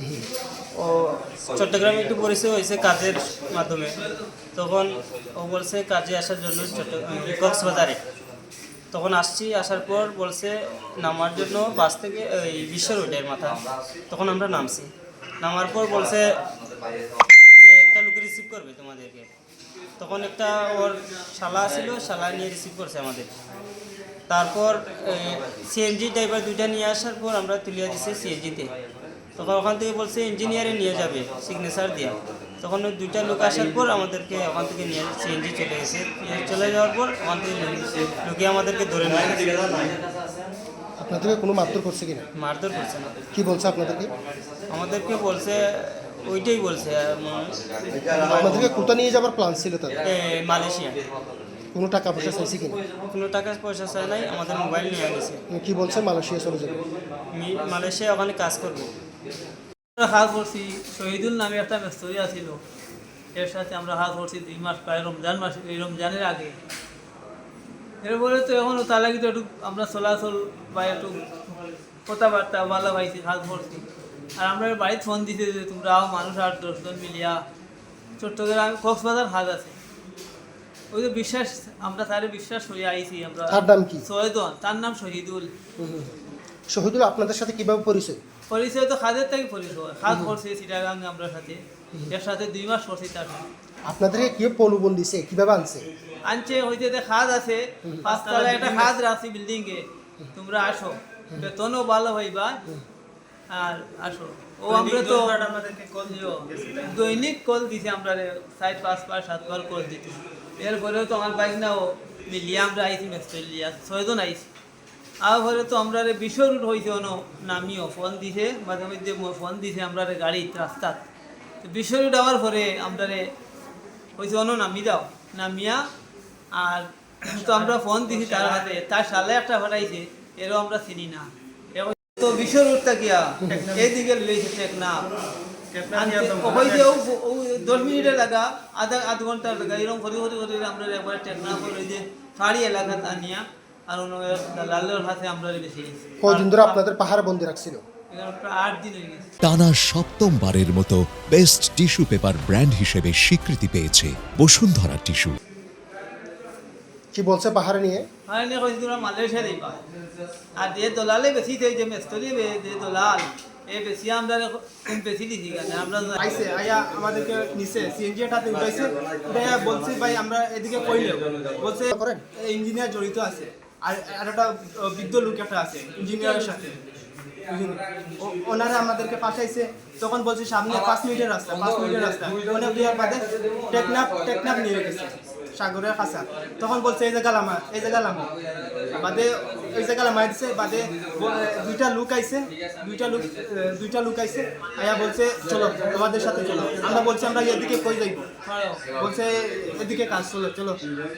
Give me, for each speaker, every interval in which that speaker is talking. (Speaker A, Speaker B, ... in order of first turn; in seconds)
Speaker A: 0.7-4.0, 4.5-8.0, 8.9-14.9, 15.4-16.2, 17.6-19.3, 20.0-23.3, 24.3-28.7, 29.4-40.0, 42.4-43.1, 44.7-48.7, 50.0-51.0, 52.8-55.4, 57.3-58.9
Speaker B: 41.0-42.2, 43.3-44.1, 48.2-50.0, 51.7-52.8, 55.5-56.8, 83.5-84.0, 85.8-86.1, 86.7-88.2, 93.8-95.9, 97.8-98.1, 146.2-147.8, 157.1-158.1, 171.9-172.2
Speaker C: 60.0-62.6, 63.3-66.6, 68.0-71.2, 72.0-73.8, 74.4-77.4, 78.2-79.8, 80.9-85.5, 88.5-93.5, 96.2-102.6, 103.5-105.3, 106.1-114.5, 115.2-121.0, 121.6-123.2, 124.2-125.8, 126.5-135.1, 135.9-146.8, 148.1-149.3, 158.3-159.8, 160.6-166.2, 198.4-198.8
Speaker D: 98.1-98.9, 104.7-106.9, 133.4-133.8, 135.7-137.0, 166.2-176.8, 177.5-188.3, 189.0-198.2, 198.9-200.8
Speaker E: 149.4-155.4